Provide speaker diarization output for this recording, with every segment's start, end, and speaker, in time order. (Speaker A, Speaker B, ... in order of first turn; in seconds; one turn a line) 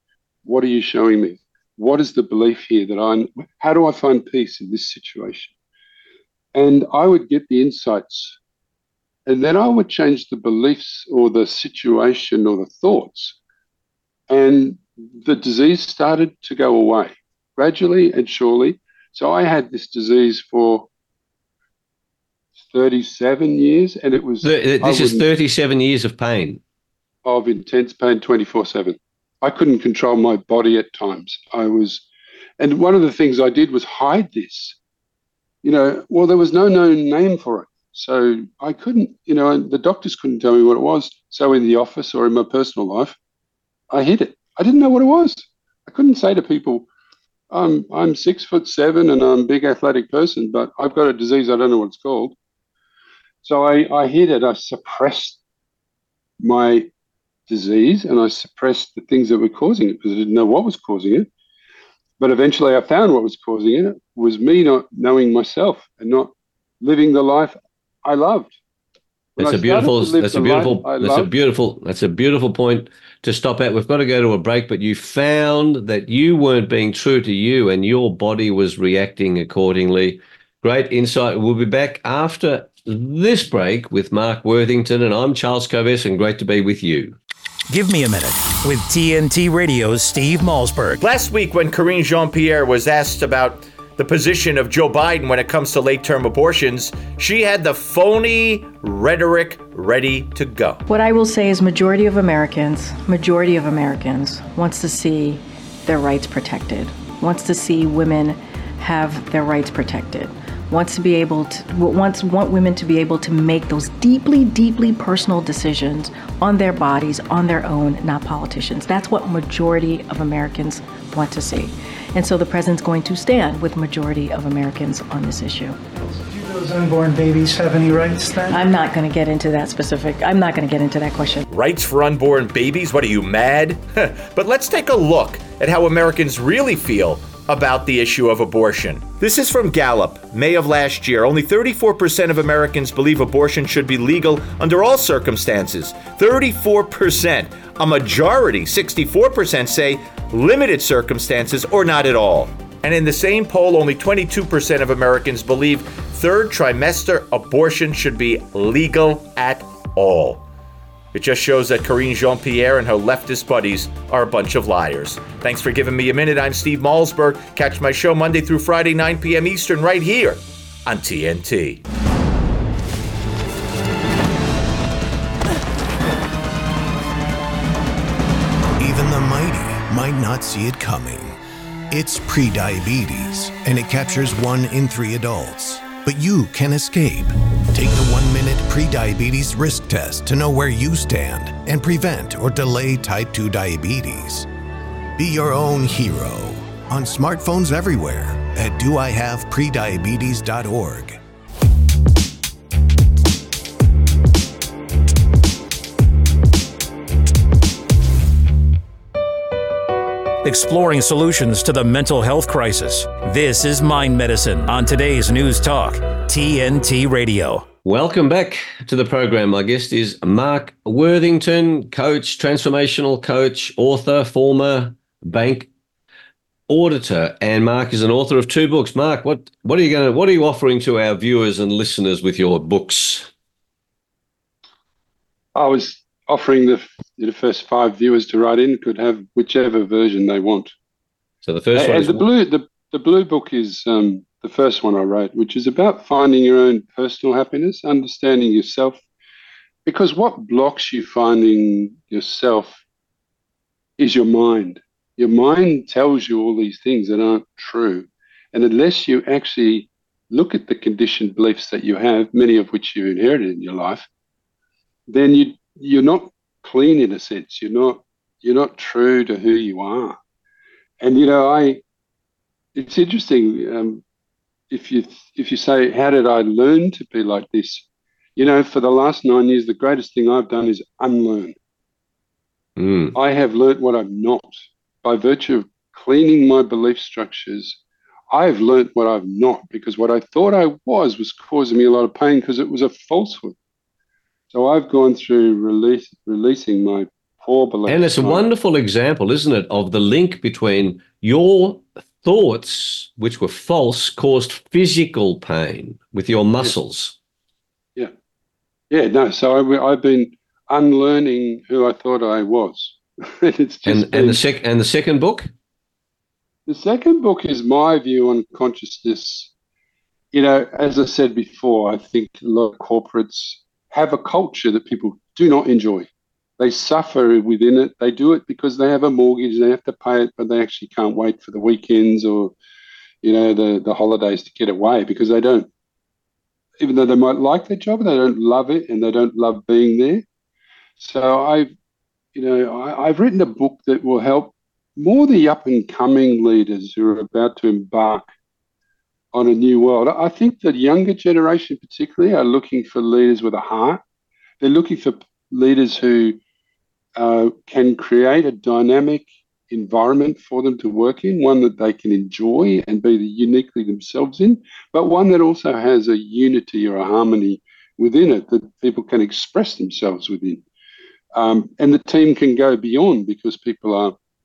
Speaker A: 0.4-5.5
Speaker A: 6.5-8.4
Speaker A: 9.2-13.3
Speaker A: 14.3-20.9
Speaker A: 22.6-25.2
Speaker B: 24.4-26.6
Speaker A: 27.2-32.0
Speaker A: 32.6-34.8
Speaker A: 35.6-43.1
Speaker A: 43.9-46.9
Speaker A: 47.5-52.3
Speaker A: 53.4-55.4
Speaker A: 56.4-56.9
Speaker A: 57.5-61.3
Speaker A: 62.2-68.5
Speaker A: 69.4-71.3
Speaker B: 69.4-87.2
Speaker C: 87.7-91.0
Speaker D: 91.0-100.8
Speaker E: 100.9-125.8
Speaker F: 126.0-128.7
Speaker E: 128.5-131.4
Speaker D: 131.5-160.4
Speaker D: 161.1-171.8
Speaker G: 178.8-181.4
Speaker G: 181.9-194.5
Speaker G: 195.2-201.2
Speaker C: 210.4-217.7
Speaker B: 217.8-225.7
Speaker B: 226.7-233.3
Speaker A: 235.5-240.7
Speaker B: 241.4-242.2
Speaker A: 241.7-249.0
Speaker A: 249.8-252.8
Speaker A: 254.0-264.1
Speaker A: 265.1-270.2
Speaker A: 271.0-271.8
Speaker A: 272.7-274.0
Speaker A: 274.7-277.8
Speaker A: 278.4-281.6
Speaker B: 282.8-283.1
Speaker A: 283.1-287.8
Speaker A: 288.3-293.5
Speaker A: 294.5-298.4
Speaker B: 297.9-307.1
Speaker A: 308.9-314.4
Speaker B: 313.9-315.5
Speaker A: 316.7-319.5
Speaker A: 320.3-332.5
Speaker A: 333.2-335.7
Speaker A: 336.8-340.2
Speaker A: 341.0-341.7
Speaker A: 342.3-348.3
Speaker A: 349.3-354.0
Speaker A: 354.6-356.4
Speaker A: 357.1-370.6
Speaker A: 371.3-374.1